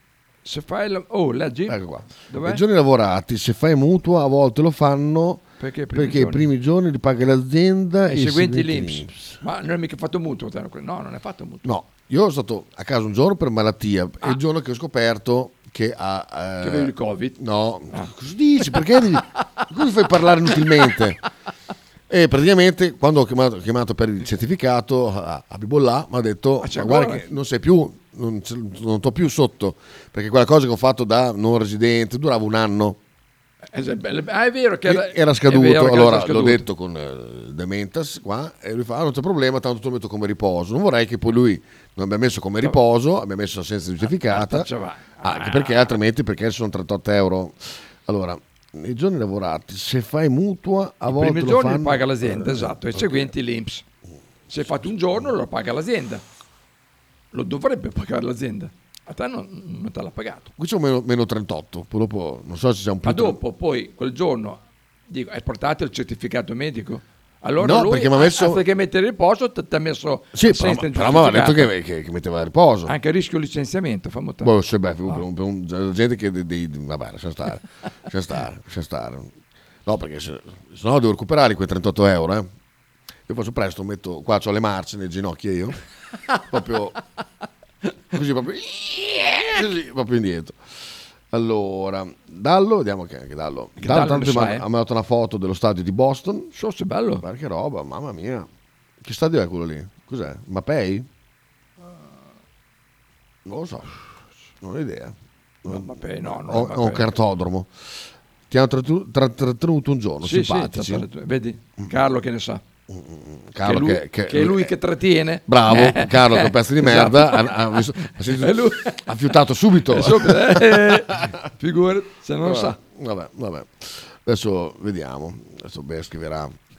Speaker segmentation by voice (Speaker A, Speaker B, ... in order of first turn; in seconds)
Speaker A: 0.5-2.6, 5.6-6.5, 8.1-11.7, 16.6-17.4, 26.6-27.3, 33.7-36.6, 44.1-46.0, 51.1-53.8, 54.5-56.2, 57.3-60.5, 63.0-71.7, 72.9-74.5, 93.8-94.7, 96.5-97.2, 105.7-107.1, 110.2-112.6, 113.6-119.0, 119.9-122.8
Speaker B: 1.7-9.4, 11.6-21.2, 22.1-33.0, 34.9-44.7, 45.2-53.3, 54.7-55.2, 60.6-63.4, 67.6-68.6, 70.3-72.9, 74.4-82.5, 83.3-85.8, 86.3-87.0, 88.1-90.6, 91.3-96.5, 97.2-98.5, 99.0-101.1, 103.5-107.9, 108.5-111.1, 112.9-114.7, 115.5-121.3, 122.4-126.5